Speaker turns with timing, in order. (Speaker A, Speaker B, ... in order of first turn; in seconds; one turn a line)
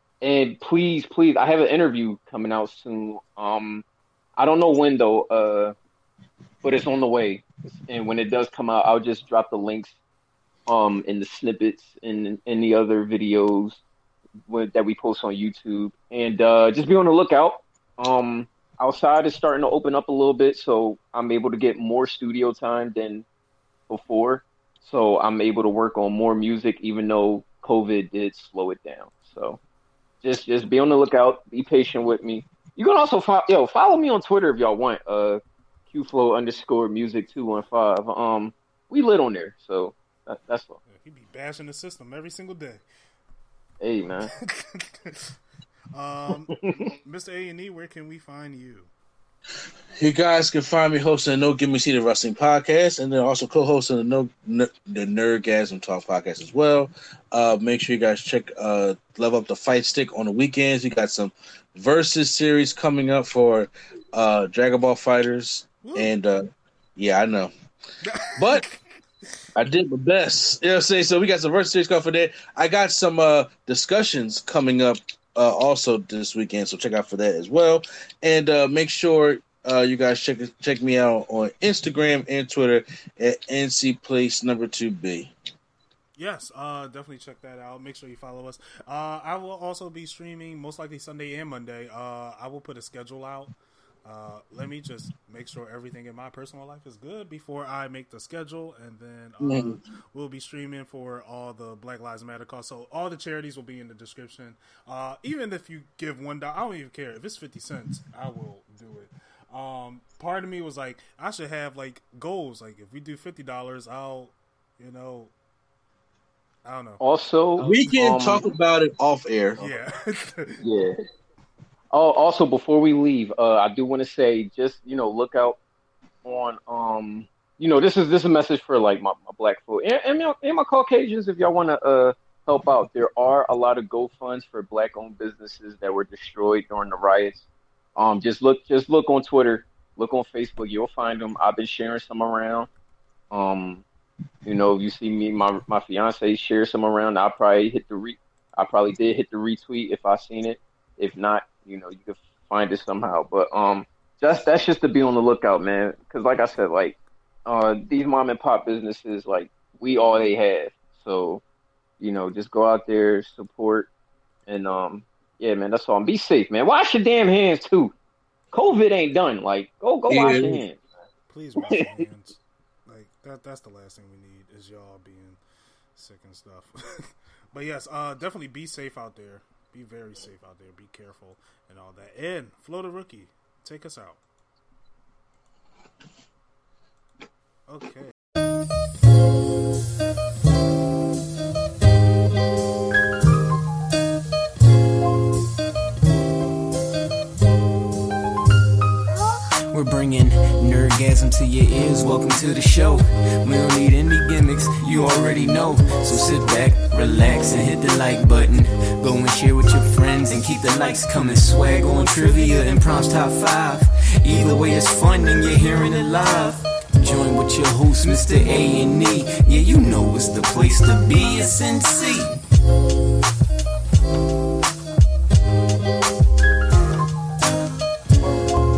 Speaker A: 0.2-3.8
Speaker A: 4.3-5.7
Speaker A: 6.6-9.9
Speaker A: 10.7-13.8
Speaker A: 14.5-23.2
Speaker A: 23.9-29.6
Speaker A: 30.2-40.8
Speaker B: 40.9-42.8
Speaker A: 43.8-44.3
Speaker B: 44.3-45.3
Speaker B: 45.9-48.9
Speaker C: 50.0-66.4
Speaker B: 65.8-66.1
Speaker C: 67.0-67.5
Speaker B: 68.0-68.8
Speaker C: 68.3-68.7
Speaker C: 69.5-85.3
Speaker B: 86.2-93.5
Speaker B: 94.0-115.3
Speaker C: 99.4-99.8
Speaker B: 116.6-117.0
Speaker A: 117.0-118.5
Speaker C: 117.6-119.7
Speaker B: 119.6-120.6
Speaker A: 120.6-120.9
Speaker A: 121.9-125.6
Speaker A: 126.2-137.4
Speaker A: 137.9-142.7
Speaker A: 143.3-143.8
Speaker A: 144.4-161.4
Speaker A: 162.0-163.9
Speaker A: 164.5-167.9
Speaker A: 168.5-170.8
Speaker C: 170.1-170.6
Speaker B: 171.3-175.4
Speaker B: 175.9-184.2
Speaker B: 187.7-188.1
Speaker D: 199.7-222.4